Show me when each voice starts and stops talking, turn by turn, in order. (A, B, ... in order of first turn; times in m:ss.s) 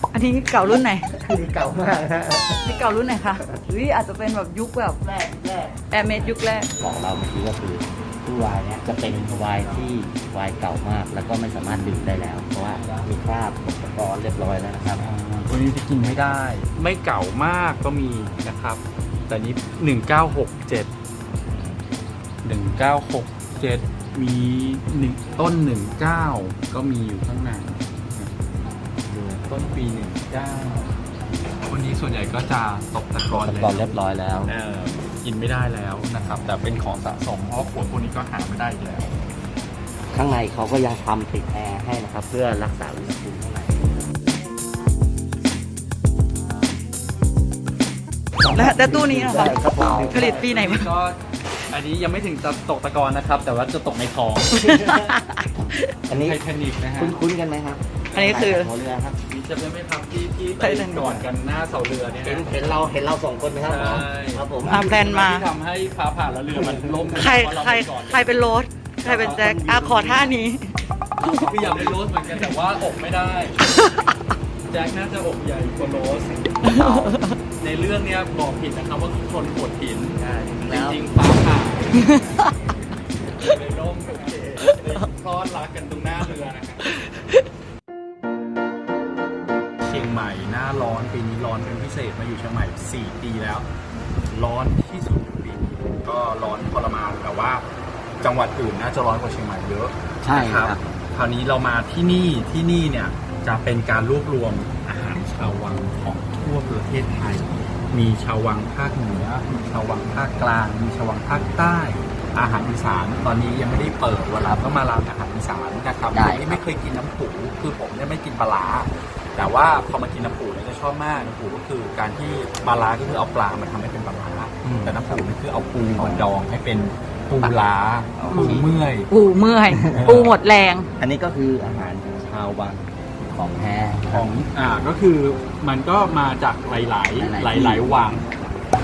0:00.1-0:01.1 A
0:00.6-0:02.7 B
0:02.6-0:05.0 A
0:05.0-0:06.0 B
0:05.9-0:06.7 A
0:06.8-0:15.0 B
0:09.0-0:10.0 C
0:11.6-0:13.1 C
0:15.0-0:20.9 C
0:16.0-0:16.4 B
0:21.5-0:21.8 B
0:22.4-0:28.3 C
0:29.1-0:31.0 C
0:31.6-0:39.1 C
0:33.2-0:34.5 B
0:36.1-0:36.4 B
0:40.1-0:44.0 B
0:48.4-0:50.5 B
0:48.4-0:50.9 A
0:50.1-0:51.2 C
0:51.7-0:54.6 C
0:54.5-0:55.9 A
0:54.6-0:55.1 B
0:56.1-0:56.4 B
0:56.1-0:57.2 C
0:57.0-0:59.2 B
0:58.1-0:58.7 A
0:59.3-1:02.6 C
1:00.6-1:01.3 A
1:02.2-1:04.9 B
1:03.6-1:08.5 C
1:04.6-1:05.5 A
1:06.6-1:07.1 B
1:07.2-1:11.5 A
1:09.0-1:10.4 B
1:09.0-1:09.4 C
1:11.2-1:12.1 B
1:11.3-1:13.6 C
1:13.7-1:14.1 A
1:14.7-1:16.9 C
1:16.6-1:17.4 A
1:16.6-1:17.2 B
1:17.6-1:26.9 C
1:20.2-1:21.1 B
1:29.8-1:33.7 C
1:34.3-1:37.6 C
1:38.2-2:09.1 C
1:40.2-1:40.9 B
1:56.1-1:56.6 B
2:04.6-2:05.3 B
2:05.9-2:06.3 B
2:07.4-2:07.6 B
2:08.2-2:08.7 B
2:08.3-2:10.9 A
2:09.7-2:10.2 B
2:10.0-2:10.4 C
2:11.0-2:14.4 B
2:14.1-2:18.3 C
2:17.2-2:17.8 B